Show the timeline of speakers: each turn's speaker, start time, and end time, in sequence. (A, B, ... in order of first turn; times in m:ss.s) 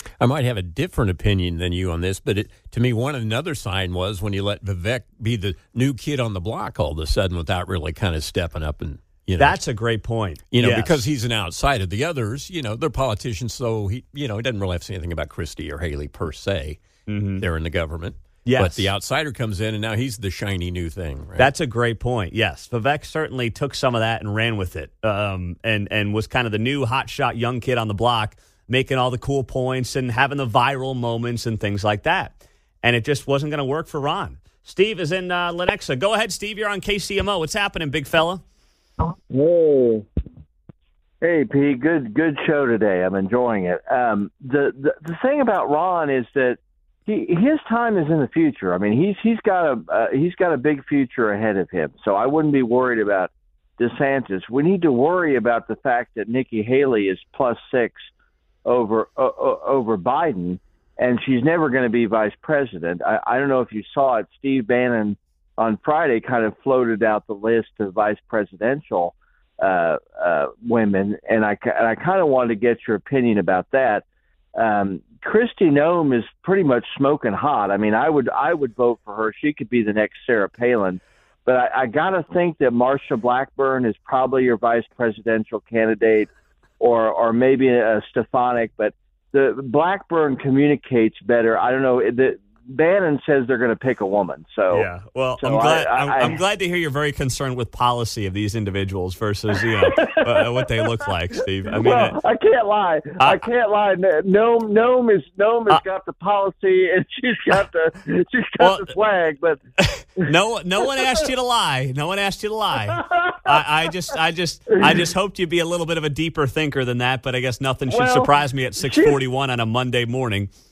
0:00.2-0:09.6 A
0:09.4-0:11.0 B
0:10.5-0:16.8 A
0:17.1-0:17.4 B
0:17.4-0:21.5 A
0:18.4-0:18.9 B
0:21.4-0:38.4 B
0:39.1-0:40.0 C
0:41.2-0:58.1 C
0:58.6-1:14.0 C
1:14.6-1:26.3 C
1:26.8-1:34.9 C
1:34.7-1:42.2 B
1:35.4-1:36.4 C
1:39.8-1:41.0 C
1:41.7-1:49.6 C
1:43.2-1:43.4 B
1:48.6-1:48.9 B
1:49.8-2:00.5 B
1:53.0-1:53.5 C
1:57.9-1:58.3 C
1:58.8-1:59.2 C